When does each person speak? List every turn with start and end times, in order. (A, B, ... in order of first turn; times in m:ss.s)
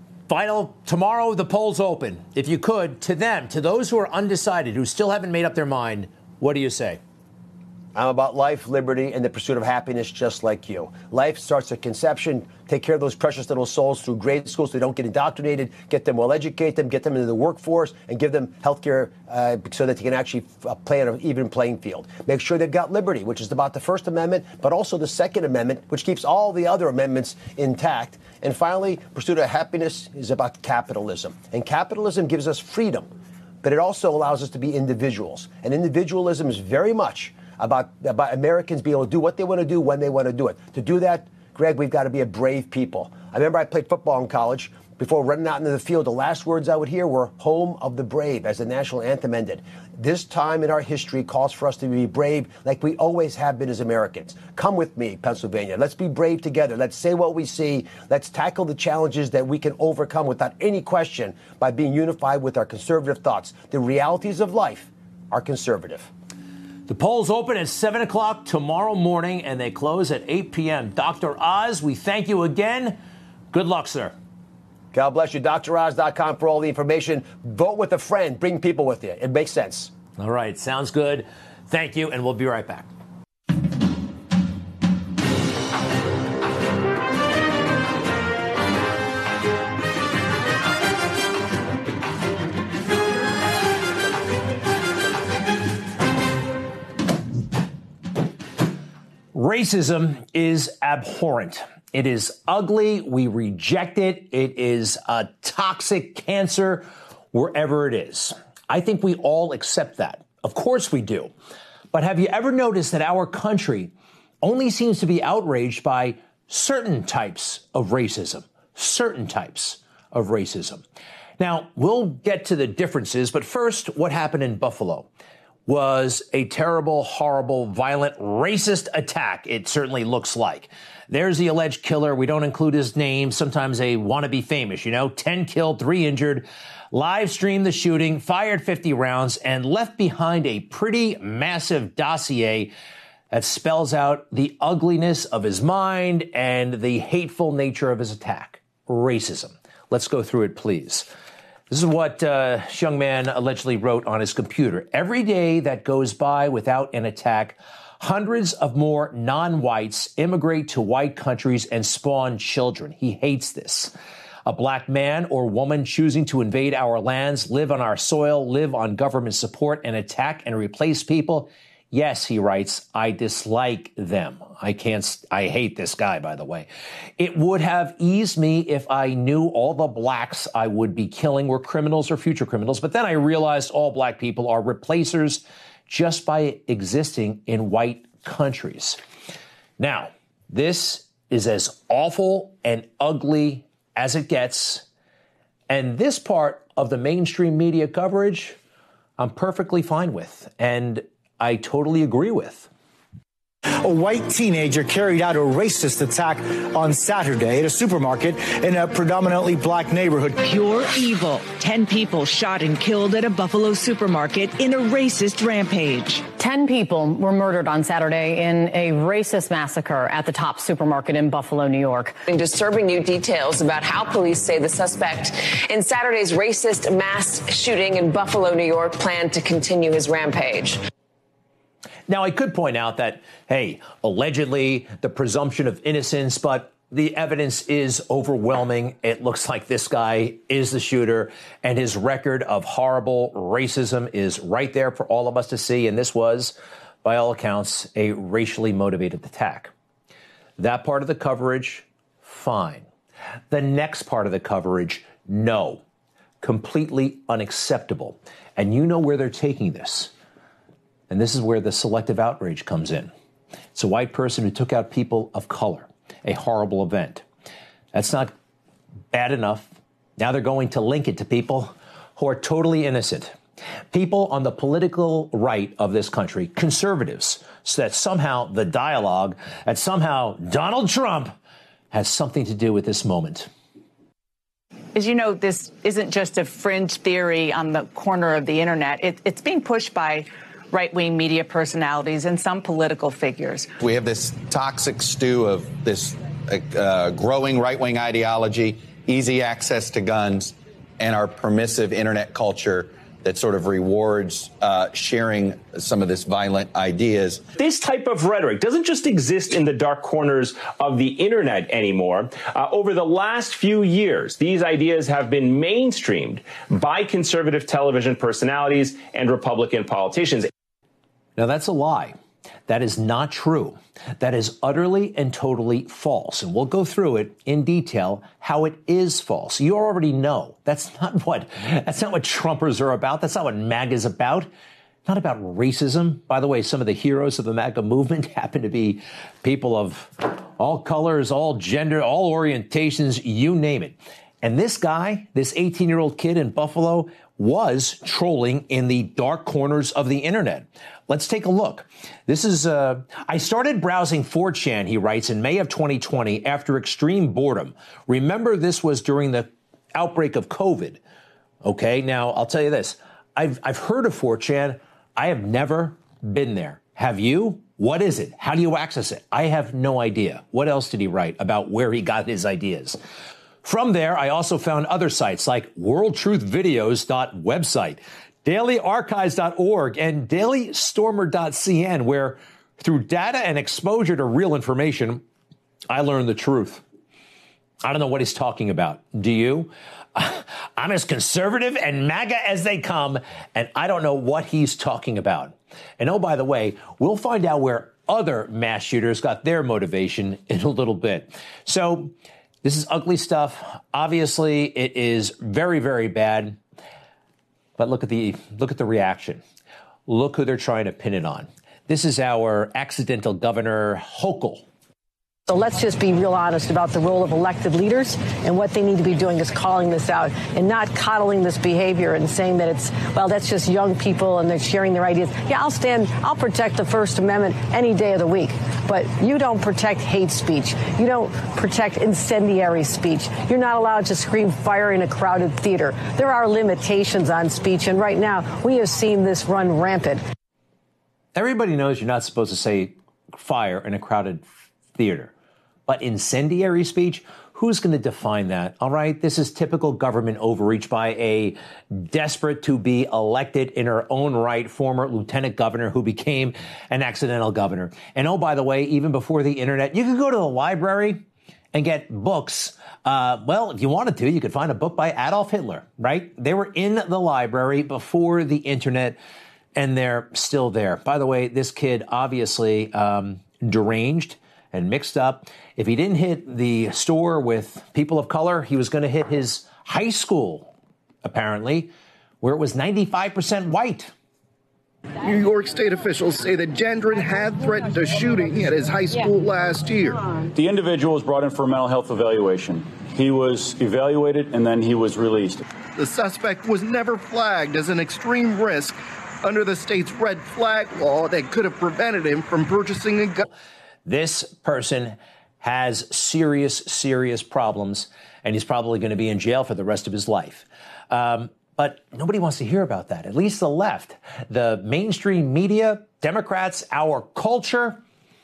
0:00.3-0:07.0 A
0:07.9-0:33.1 B
0:33.6-1:06.1 B
1:06.9-1:13.0 A
1:13.5-1:14.1 A
1:14.9-1:19.9 B
1:20.2-1:22.9 A
1:39.3-1:51.3 A
1:51.9-2:00.8 A
2:01.4-2:05.1 A
2:05.7-2:22.7 A
2:23.3-2:31.1 A
2:31.7-2:43.9 A
2:44.4-2:56.7 A
2:57.2-3:09.0 A
3:09.8-3:14.8 A
3:15.7-3:18.6 A
3:19.2-3:22.7 A
3:23.8-3:30.4 C
3:30.4-3:35.4 D
3:35.4-3:36.2 E
3:36.4-3:42.2 F
3:42.3-3:50.8 G
3:52.1-4:09.7 A
4:10.6-4:12.9 A
4:13.5-4:15.8 A
4:16.4-4:20.1 A
4:21.1-4:23.1 A
4:23.7-4:27.2 A
4:27.9-4:28.3 A
4:29.1-4:33.4 A
4:33.9-4:41.3 A
4:41.9-4:43.5 A
4:44.9-4:53.7 E
4:53.8-5:07.4 H
5:07.6-5:20.5 I
5:21.4-5:34.5 A
5:35.0-6:01.0 A
6:01.6-6:13.0 A
6:13.6-6:25.2 A
6:25.9-6:26.8 A
6:27.8-6:42.1 A
6:42.6-6:46.6 A
6:47.8-6:49.4 A
6:50.1-6:54.6 A
6:55.5-7:20.2 J
7:21.3-7:25.3 A
7:25.8-7:41.2 A
7:41.7-7:49.2 A
7:49.7-8:00.7 A
8:01.2-8:01.9 A
8:02.4-8:04.1 A
8:05.2-8:10.2 K
8:10.5-8:15.6 L
8:16.0-8:23.4 K
8:24.0-8:38.0 A